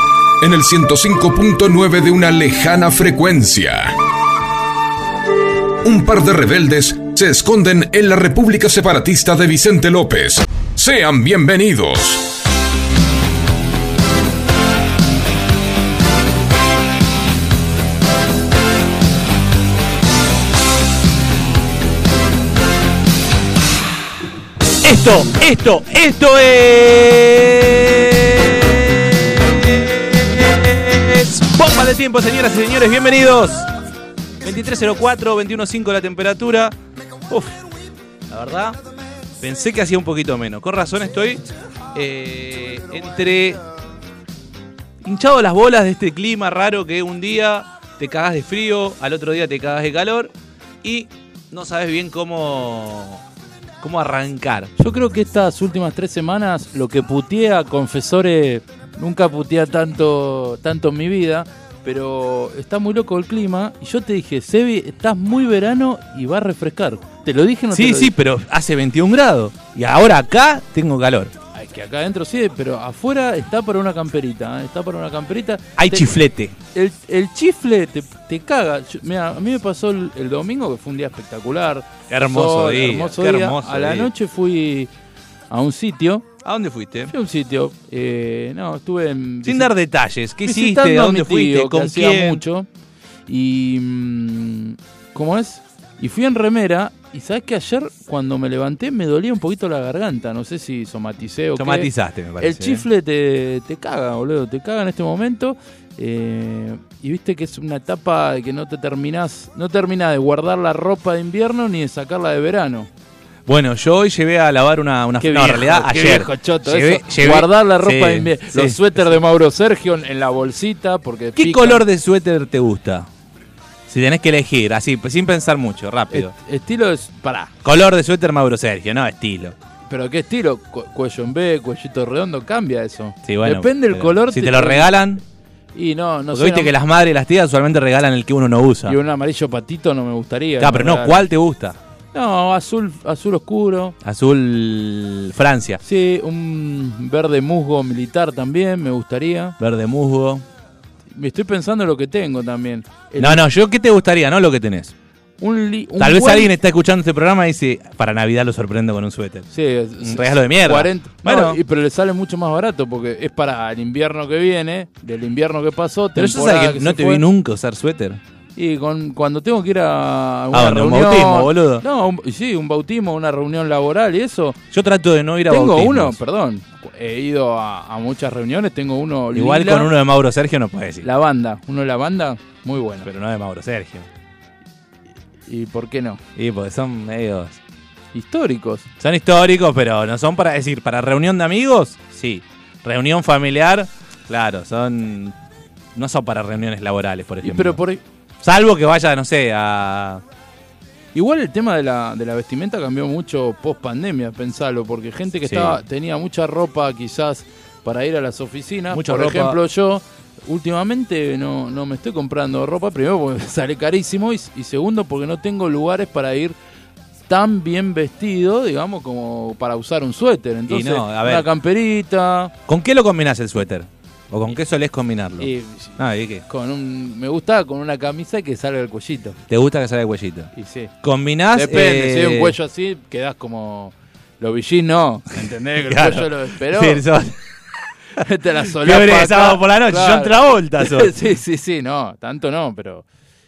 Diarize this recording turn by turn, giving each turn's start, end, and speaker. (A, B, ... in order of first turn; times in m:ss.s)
0:00.4-0:04.0 A
0:05.8-0:12.3 A
0:24.8-0:33.7 B
0:34.4-0:36.8 B
0:37.3-0:37.6 B
0:38.3-0:38.8 B
0:39.4-0:43.6 B
0:45.0-0:53.2 B
0:53.8-0:54.7 B
0:54.8-1:08.1 C
1:07.7-1:11.3 B
1:11.5-1:16.2 C
1:15.8-1:16.5 B
1:16.7-1:24.9 C
1:22.1-1:24.1 B
1:25.5-1:26.3 C
1:26.4-1:27.1 B
1:27.1-1:29.7 C
1:29.4-1:32.4 B
1:30.4-1:32.7 C
1:33.3-1:52.9 C
1:41.6-1:42.8 B
1:53.4-1:59.2 B
1:55.2-2:01.8 C
2:01.4-2:03.1 B
2:03.9-2:06.3 B
2:06.1-2:07.5 C
2:07.6-2:09.5 B
2:09.9-2:14.9 C
2:13.2-2:15.2 B
2:15.7-2:16.7 C
2:16.3-2:19.0 B
2:18.8-2:21.3 C
2:20.6-2:21.8 B
2:22.1-2:24.0 C
2:24.0-2:25.8 B
2:25.8-2:29.6 C
2:29.6-2:30.4 B
2:31.1-2:33.4 C
2:33.2-2:34.9 B
2:35.4-2:36.5 C
2:36.0-2:39.5 B
2:39.5-2:47.2 C
2:40.0-2:41.6 B
2:46.1-2:48.2 B
2:48.6-2:54.6 C
2:50.5-2:51.8 B
2:54.7-2:56.2 B
2:55.5-2:59.9 C
2:59.3-3:01.1 B
3:01.0-3:03.1 C
3:03.0-3:04.1 B
3:05.5-3:06.2 C
3:06.4-3:07.6 B
3:08.1-3:08.9 C
3:09.0-3:15.3 B
3:15.9-3:17.8 B
3:17.4-3:18.0 C
3:18.4-3:20.2 B
3:21.1-3:36.5 C
3:25.4-3:25.8 B
3:28.9-3:29.6 B
3:37.3-3:42.5 C
3:40.7-3:41.4 B
3:42.7-3:46.4 B
3:45.4-3:49.4 C
3:49.5-3:52.6 B
3:50.5-3:50.9 C
3:51.5-3:57.0 C
3:55.8-3:57.4 B
3:58.1-4:03.0 C
3:58.7-4:01.2 B